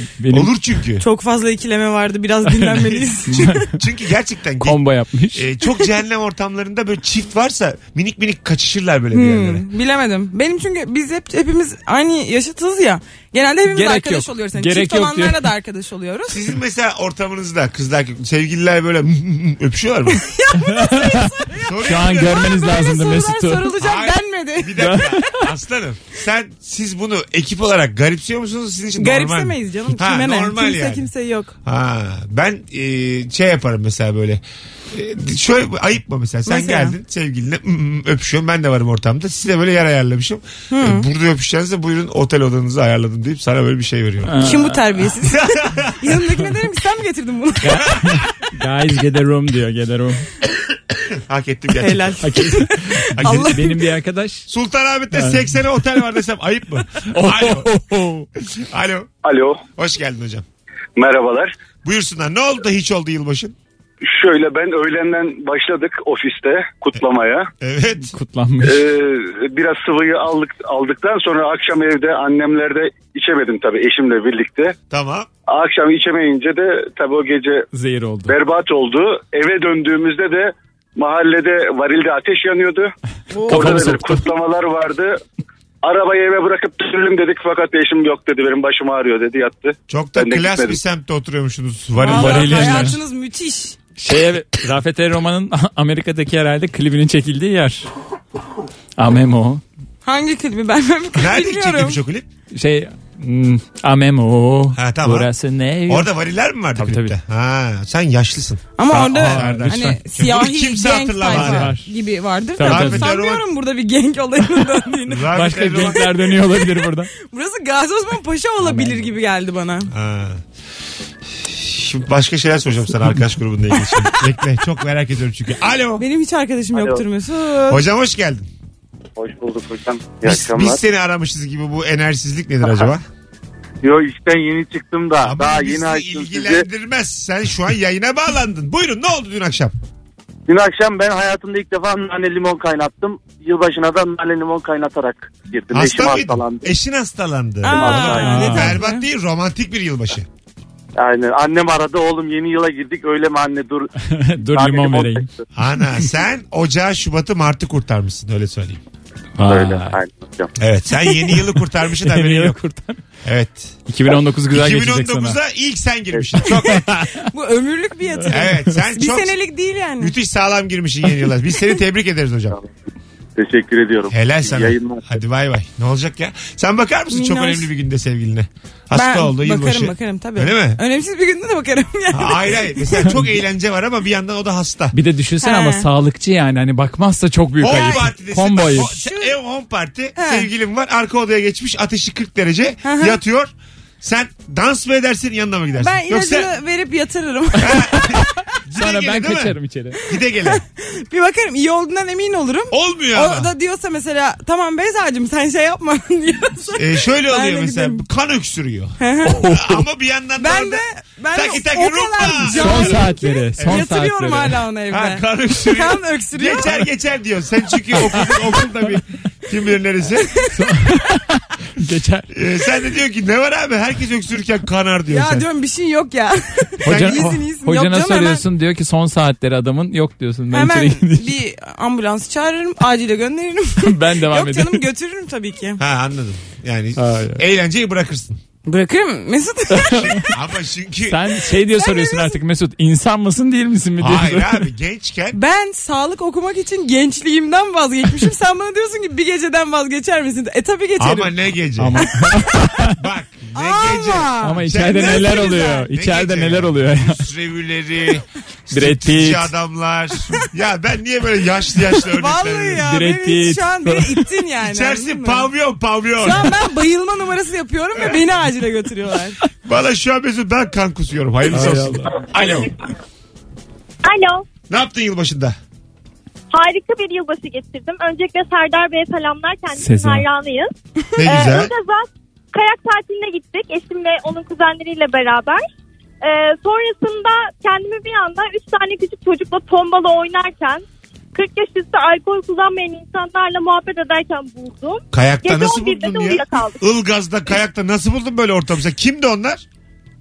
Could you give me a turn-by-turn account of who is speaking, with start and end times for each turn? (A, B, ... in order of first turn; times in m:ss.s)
0:00.2-0:00.5 A
0:00.3-0:01.0 B
0:01.0-0:03.7 C
0:02.5-0:03.7 A
0:03.3-0:04.8 B
0:04.6-0:05.5 A
0:05.3-0:09.6 B
0:09.1-0:16.4 C
0:13.7-0:15.4 A
0:16.3-0:20.2 B
0:20.1-0:21.6 C
0:20.6-0:23.7 A
0:21.6-0:22.5 B
0:22.3-0:25.4 C
0:23.8-0:31.1 B
0:24.8-0:25.2 A
0:29.0-0:31.5 C
0:31.6-0:44.4 B
0:36.4-0:37.0 C
0:40.7-0:41.0 C
0:44.2-0:44.9 A
0:44.4-0:47.9 C
0:45.3-0:46.1 B
0:47.6-0:50.2 A
0:51.1-0:52.1 B
0:51.8-0:53.8 C
0:52.2-0:54.5 A
0:53.2-0:53.5 B
0:54.5-0:57.7 B
0:55.1-0:55.4 A
0:57.1-0:58.3 A
0:58.5-0:59.1 B
0:59.2-0:59.6 D
0:59.7-1:00.4 B
1:01.0-1:01.5 D
1:01.8-1:03.6 B
1:04.0-1:07.5 D
1:07.6-1:08.1 B
1:08.1-1:08.8 A
1:08.6-1:14.8 D
1:14.9-1:15.3 B
1:15.5-1:17.7 D
1:17.7-1:18.4 A
1:18.3-1:22.9 D
1:23.3-1:23.7 C
1:23.4-1:24.3 A
1:23.5-1:25.2 D
1:25.8-1:30.8 D
1:29.9-1:33.0 B
1:32.0-1:33.8 C
1:32.0-1:33.0 A
1:34.0-1:37.9 A
1:39.0-1:39.6 A
1:40.0-1:42.0 C
1:41.2-1:42.3 B
1:42.5-1:46.1 A
1:44.7-1:45.3 B
1:45.9-1:51.7 B
1:46.8-1:47.1 A
1:48.8-1:55.3 C
1:48.9-1:50.0 A
1:51.3-1:51.9 A
1:52.6-1:53.1 A
1:52.6-1:53.4 B
1:55.1-1:56.1 B
1:55.3-1:57.1 A
1:57.2-1:59.9 C
1:58.6-1:59.1 A
1:59.9-2:00.4 B
2:01.3-2:06.0 B
2:06.0-2:07.8 C
2:06.7-2:07.0 E
2:07.7-2:08.5 B
2:09.2-2:10.8 E
2:10.2-2:13.0 B
2:13.8-2:16.6 E
2:15.2-2:19.7 B
2:20.5-2:26.7 E
2:25.7-2:30.3 B
2:27.6-2:29.0 C
2:27.6-2:28.4 E
2:28.1-2:28.8 A
2:31.0-2:33.9 E
2:34.0-2:35.3 A
2:34.5-2:35.3 E
2:35.6-2:38.8 B
2:39.4-2:40.0 A
2:39.4-2:40.5 E
2:40.6-2:42.6 B
2:42.0-2:43.0 A
2:43.2-2:43.8 B
2:43.9-2:45.4 A
2:44.5-2:46.9 B
2:46.4-2:50.1 C
2:46.9-2:47.2 A
2:48.3-2:49.3 B
2:50.0-2:52.6 B
2:53.4-2:55.0 E
2:54.1-3:00.8 B
2:57.1-2:57.7 C
2:58.9-3:03.1 C
3:02.1-3:04.9 B
3:04.9-3:08.9 A
3:05.4-3:05.9 C
3:07.6-3:16.5 B
3:07.6-3:08.1 C
3:08.6-3:09.3 C
3:10.2-3:10.5 C
3:12.8-3:13.2 C
3:15.8-3:18.1 C
3:17.6-3:20.6 B
3:18.8-3:20.0 A
3:20.4-3:28.0 C
3:22.7-3:23.5 B
3:26.7-3:33.0 B
3:29.0-3:29.4 C
3:29.2-3:29.8 A
3:30.4-3:36.8 C
3:32.5-3:34.6 A
3:34.9-3:40.4 B
3:40.5-3:42.3 A
3:42.3-3:45.4 B
3:45.1-3:48.4 C
3:46.8-3:51.3 A
3:46.8-3:47.2 B
3:50.5-3:55.8 C
3:53.8-3:54.9 A
3:55.8-3:58.4 B
3:57.0-3:57.4 A
3:58.6-4:00.3 C
3:59.7-4:00.2 A
4:00.2-4:01.2 B
4:01.1-4:04.6 A
4:01.7-4:02.4 C
4:04.0-4:05.4 B
4:05.3-4:11.3 C
4:11.0-4:12.0 B
4:11.8-4:13.0 A
4:12.2-4:12.4 C
4:12.9-4:22.8 B
4:13.5-4:15.9 C
4:14.4-4:17.2 A
4:18.7-4:19.5 A
4:22.1-4:25.5 C
4:22.8-4:24.3 A
4:24.6-4:26.5 B
4:26.2-4:29.4 C
4:29.6-4:32.8 B
4:31.5-4:32.2 A
4:34.0-4:34.4 F
4:34.7-4:35.6 B
4:36.5-4:45.6 F
4:39.7-4:40.2 A
4:41.2-4:41.7 B
4:46.2-4:50.8 F
4:51.3-4:56.8 F
4:55.1-4:59.6 B